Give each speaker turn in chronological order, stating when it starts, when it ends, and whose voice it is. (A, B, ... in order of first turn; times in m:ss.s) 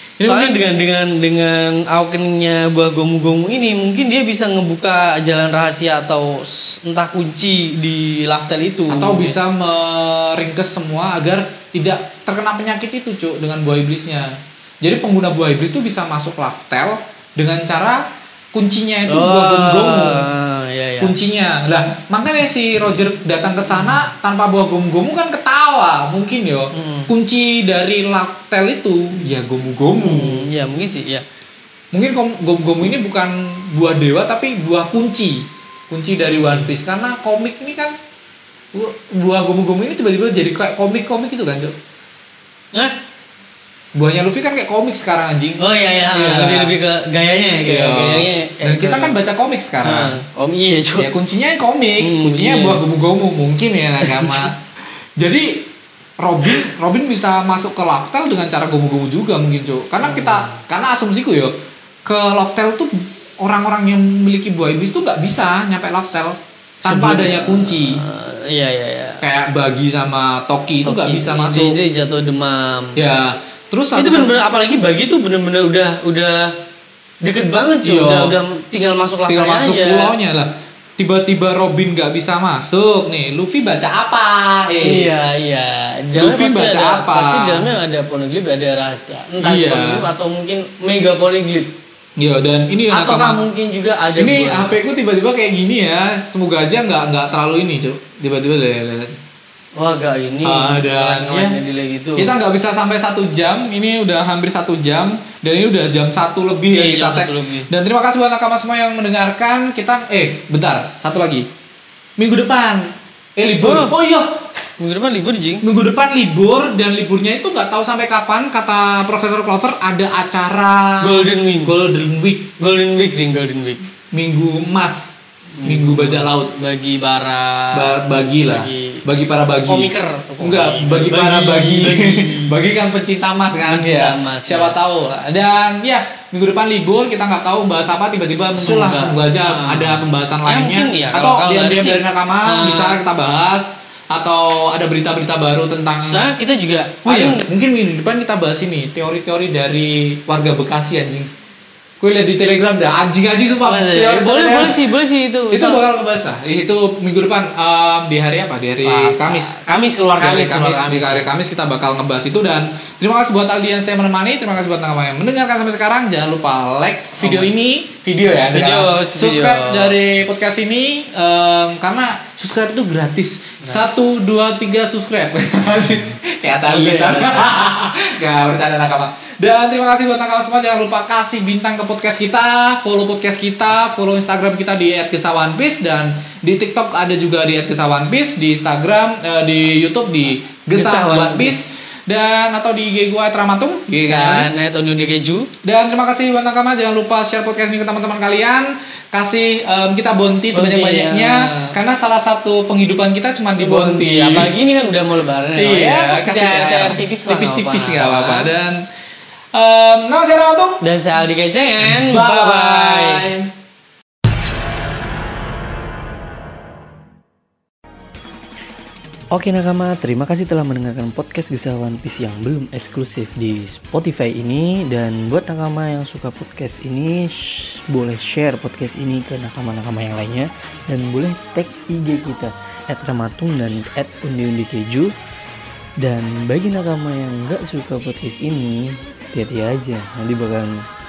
0:00.2-0:00.6 A
0:00.2-0:09.4 B
0:08.9-0:20.2 A
0:19.1-0:21.1 B
0:21.0-0:30.5 A
0:26.7-0:27.1 B
0:30.0-0:31.2 B
0:31.9-0:37.9 A
0:36.4-0:36.7 B
0:38.7-0:41.8 A
0:44.0-0:46.8 A
0:45.6-0:49.2 B
0:47.6-0:50.2 A
0:49.8-0:51.1 B
0:51.0-0:54.6 A
0:52.0-0:52.8 B
0:54.0-0:54.5 B
0:55.2-1:08.0 A
1:00.0-1:00.6 B
1:06.8-1:09.2 B
1:09.2-1:11.8 A
1:10.8-1:13.0 B
1:13.0-1:14.4 A
1:14.0-1:16.6 B
1:17.2-1:20.1 B
1:17.8-1:18.4 A
1:19.3-1:25.1 A
1:24.8-1:31.8 B
1:26.1-1:27.7 A
1:29.4-1:30.1 A
1:32.2-1:33.4 A
1:32.9-1:34.8 B
1:34.2-1:39.2 A
1:39.8-1:42.3 B
1:40.4-1:41.6 A
1:42.2-1:51.5 A
1:46.7-1:47.7 B
1:52.2-1:54.4 A
1:53.6-1:54.0 B
1:54.8-1:55.6 B
1:55.6-2:02.5 A
2:01.0-2:01.7 B
2:02.6-2:03.8 B
2:04.1-2:06.5 A
2:05.6-2:09.0 B
2:07.7-2:26.3 A
2:09.7-2:12.6 B
2:13.6-2:14.8 B
2:18.6-2:23.0 B
2:26.0-2:27.5 B
2:27.0-2:31.3 A
2:32.0-2:34.8 A
2:33.7-2:35.8 B
2:35.5-2:39.6 A
2:38.8-2:41.3 B
2:40.2-3:14.5 A
2:47.2-2:47.5 B
2:48.4-2:49.9 B
2:56.7-2:57.5 B
3:10.7-3:12.0 B
3:14.0-3:15.5 B
3:15.6-3:24.5 A
3:20.5-3:21.7 B
3:23.6-3:28.5 B
3:25.6-3:28.8 A
3:29.5-3:30.8 A
3:30.8-3:33.3 B
3:31.8-3:33.5 A
3:39.3-3:55.1 C
3:56.0-4:00.8 C